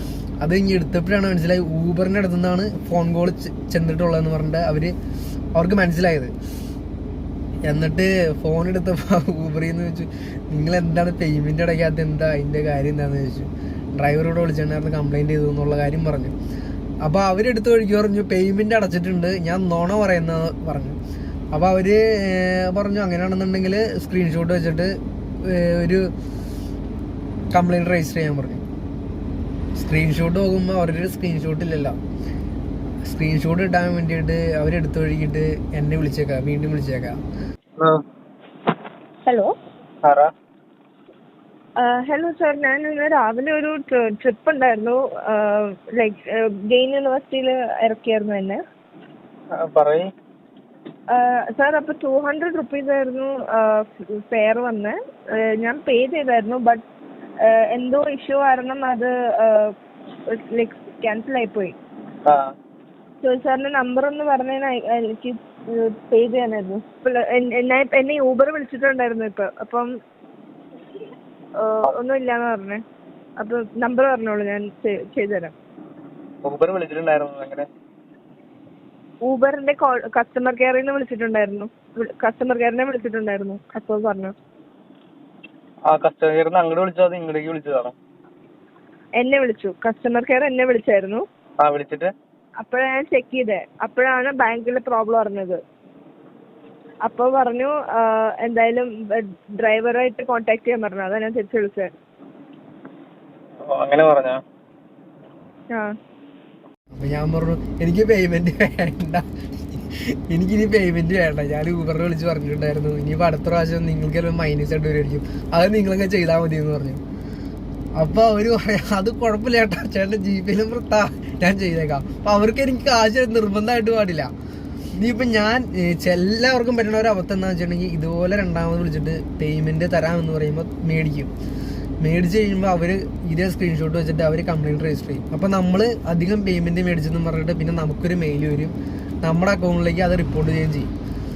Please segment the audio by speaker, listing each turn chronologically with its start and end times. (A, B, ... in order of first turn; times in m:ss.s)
0:00.4-0:04.9 A
0:05.6-0:06.3 A
0:07.6-0:16.3 A
0:17.0-0:21.0 A
0:21.5-0:26.1 A
0:27.5-0:28.6 A
0:29.8-0:32.0 A
0:33.0-0:37.2 A
0:39.2-0:39.5 B
0:40.0-0:40.3 C
0:41.8-0:48.6 B
0:49.5-0:50.1 C
0:51.1-0:56.8 B
0:57.4-0:59.7 B
1:00.3-1:01.8 B
1:02.2-1:02.5 C
1:03.2-1:09.9 B
1:11.6-1:12.8 B
1:13.4-1:15.5 B
1:16.4-1:17.7 C
1:19.2-1:24.3 B
1:25.9-1:27.9 C
1:29.2-1:31.2 B
1:31.6-1:32.1 C
1:32.6-1:35.6 B
1:37.0-1:41.9 B
1:43.6-1:44.4 C
1:46.9-1:57.0 A
1:58.0-2:04.3 A
2:04.9-2:11.3 A
2:12.0-2:20.9 A